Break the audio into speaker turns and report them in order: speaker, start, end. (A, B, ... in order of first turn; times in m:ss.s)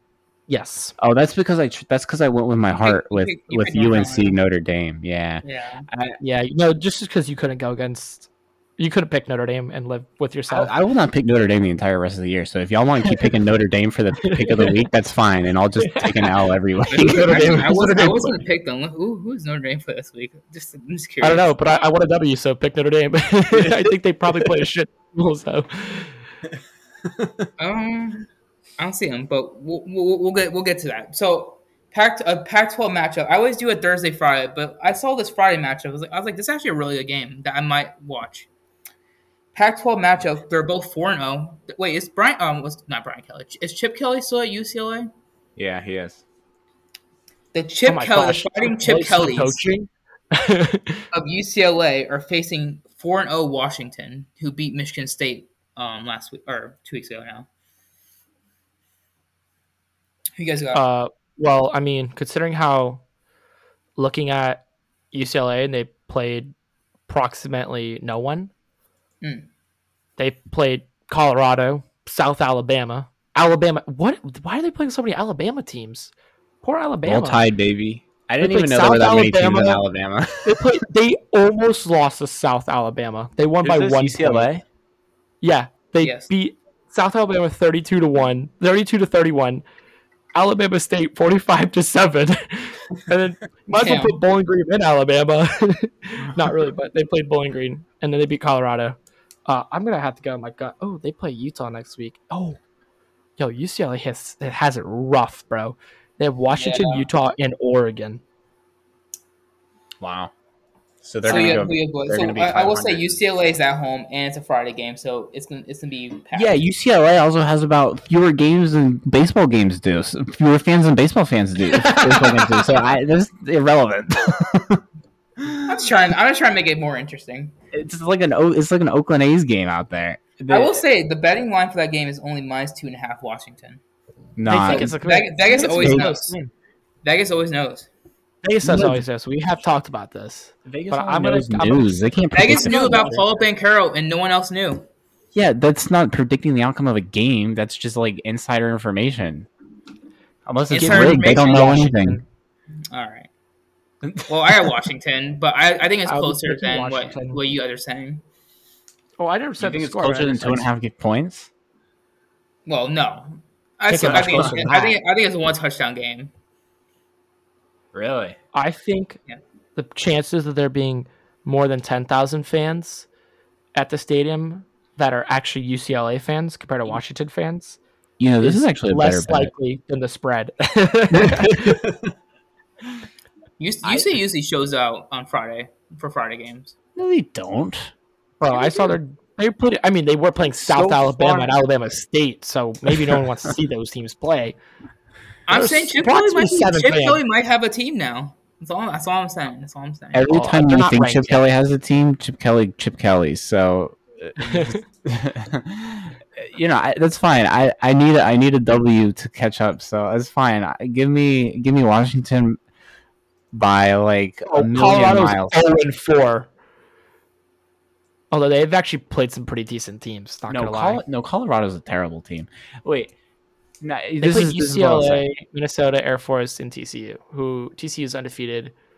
0:00.5-0:01.0 A
0:01.0-0:06.2 B
0:02.8-0:04.4 C
0:05.4-0:05.9 C
0:06.2-0:10.7 A
0:10.5-0:17.8 B
0:14.2-0:14.8 A
0:15.8-0:16.4 A
0:16.9-0:21.5 C
0:17.0-0:18.4 A
0:21.2-0:26.2 A
0:23.5-0:24.6 B
0:27.1-0:27.5 B
0:27.6-0:38.5 C
0:39.5-0:45.1 C
0:45.6-0:46.2 B
0:47.5-0:49.6 C
0:47.9-0:51.0 A
0:51.1-0:57.5 C
1:00.4-1:00.8 C
1:00.7-1:03.0 A
1:04.0-1:06.5 A
1:07.1-1:08.5 A
1:09.2-1:09.5 C
1:10.2-1:16.1 A
1:16.6-1:17.4 A
1:17.0-1:20.6 B
1:18.4-1:19.8 A
1:20.4-1:24.6 A
1:23.6-1:24.6 B
1:25.4-1:29.6 A
1:26.0-1:26.3 C
1:30.4-1:42.6 A
1:33.8-1:34.2 C
1:43.4-1:48.2 A
1:46.6-1:47.1 C
1:50.0-1:50.3 B
1:51.0-1:53.2 B
1:51.2-1:51.6 A
1:51.2-1:56.6 C
1:56.3-2:04.8 B
2:01.7-2:02.8 A
2:05.4-2:05.7 B
2:05.7-2:07.5 C
2:07.7-2:10.8 B
2:10.5-2:13.8 C
2:14.4-2:15.0 B
2:14.5-2:16.5 A
2:14.6-2:16.4 C
2:15.8-2:16.1 B
2:17.0-2:17.9 C
2:18.4-2:23.3 A
2:18.6-2:19.0 B
2:20.7-2:23.2 B
2:22.3-2:24.9 C
2:25.3-2:29.5 B
2:30.5-2:32.2 B
2:30.7-2:32.0 C
2:30.7-2:32.2 A
2:32.9-2:33.3 C
2:34.1-2:34.5 B
2:34.3-2:38.2 C
2:36.1-2:37.4 A
2:39.2-2:40.7 A
2:39.6-2:41.5 B
2:42.7-2:46.3 C
2:43.9-2:45.0 A
2:44.0-2:44.7 B
2:47.9-2:48.4 B
2:48.5-2:49.2 A
2:49.8-2:53.1 A
2:53.8-2:57.8 A
2:58.2-2:59.5 B
2:58.4-3:01.8 A
3:01.1-3:02.1 B
3:03.6-3:06.8 C
3:03.8-3:04.2 B
3:07.0-3:07.9 B
3:08.4-3:14.6 A
3:08.5-3:08.8 B
3:10.6-3:11.5 B
3:13.0-3:13.2 B
3:15.5-3:20.3 C
3:15.5-3:17.2 A
3:20.1-3:32.6 B
3:20.3-3:21.5 A
3:24.4-3:24.8 A
3:33.5-3:35.6 B
3:34.5-3:36.5 A
3:38.3-3:41.0 A
3:40.5-3:43.1 B
3:43.8-3:45.2 B
3:44.2-3:48.7 A